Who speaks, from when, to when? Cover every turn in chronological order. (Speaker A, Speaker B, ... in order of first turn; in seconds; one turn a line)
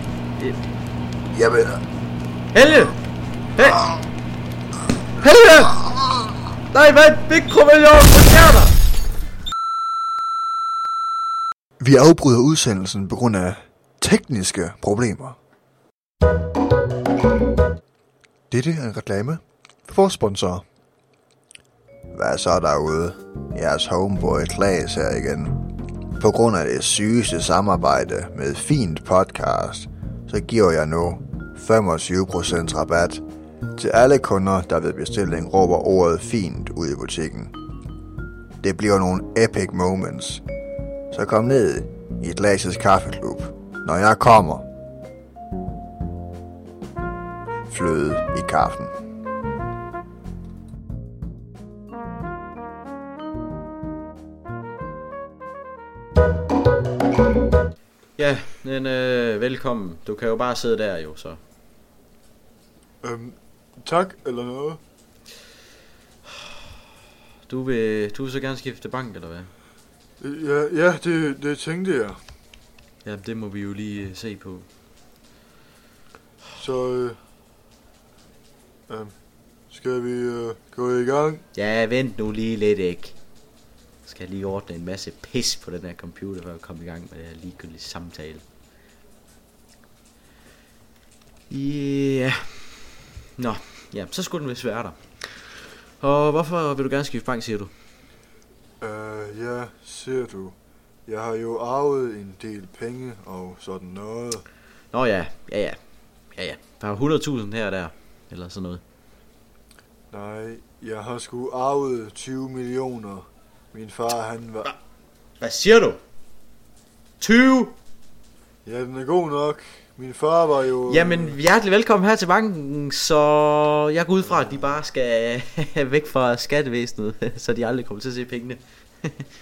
Speaker A: 1.3-1.8
Speaker B: 2.5-3.0
Speaker B: 3.5-3.9
Speaker B: 5.2-5.8
Speaker B: 6.7-8.8
Speaker A: 11.8-15.4
Speaker A: 18.5-20.6
Speaker A: 22.1-25.6
Speaker A: 26.2-33.2
Speaker A: 33.8-37.5
Speaker A: 38.6-40.4
Speaker A: 41.1-44.6
Speaker A: 47.7-48.9
Speaker B: 58.2-61.4
Speaker C: 63.0-64.8
Speaker B: 67.5-69.5
Speaker C: 70.2-72.2
Speaker B: 73.0-74.7
Speaker C: 76.6-77.2
Speaker C: 78.9-79.2
Speaker C: 79.7-81.4
Speaker B: 81.5-83.2
Speaker B: 84.1-88.4
Speaker B: 91.5-92.8
Speaker B: 93.4-97.7
Speaker C: 98.8-100.6
Speaker C: 101.1-104.5
Speaker B: 104.9-105.8
Speaker B: 106.3-108.8
Speaker C: 110.1-114.7
Speaker B: 115.4-116.0
Speaker B: 117.2-117.7
Speaker C: 118.7-121.4
Speaker B: 120.9-129.3
Speaker C: 124.2-124.8